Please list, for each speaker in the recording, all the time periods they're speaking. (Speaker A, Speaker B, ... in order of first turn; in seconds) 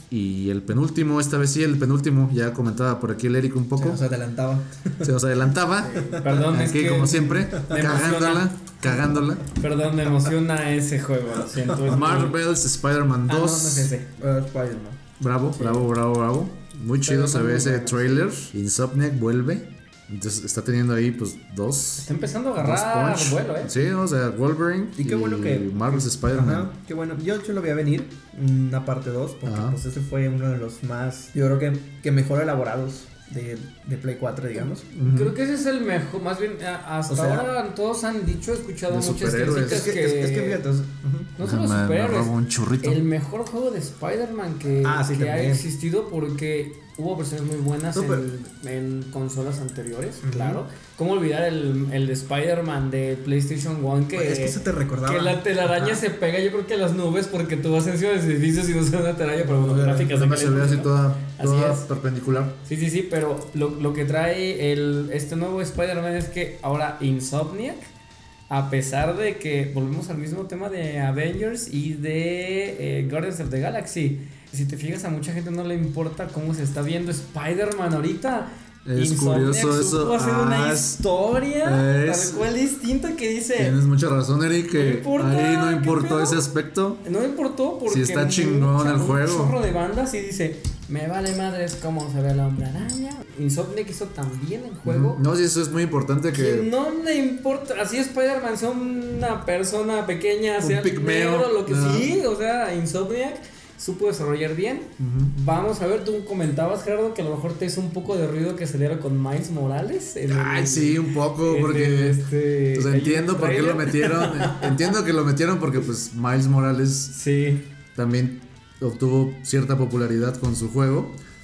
Speaker A: 0.1-4.0, 5.0-9.4, 11.9-13.9, 15.2-26.7, 29.4-29.8, 35.0-35.3, 38.9-39.9, 41.4-43.0, 60.1-62.6, 78.9-81.0, 81.6-82.4, 83.6-87.0, 87.9-89.5, 94.8-96.7, 100.6-102.1, 105.0-105.3, 110.3-112.2, 112.7-117.1, 118.0-121.2
Speaker B: 3.8-5.1, 5.8-6.4, 7.5-8.1, 10.0-10.3, 11.5-12.0, 13.7-15.0, 25.0-34.9, 37.1-37.5, 39.6-41.3, 44.8-45.6, 47.9-48.2, 50.2-50.6, 54.1-56.0, 59.4-60.2
Speaker C: 6.0-8.5, 9.5-12.4, 13.3-14.0, 15.6-15.9, 17.0-18.3, 22.0-23.7, 35.0-40.6, 41.4-61.9, 62.6-67.9, 68.5-83.8, 84.8-86.4, 87.0-95.2, 96.3-115.0, 117.1-117.7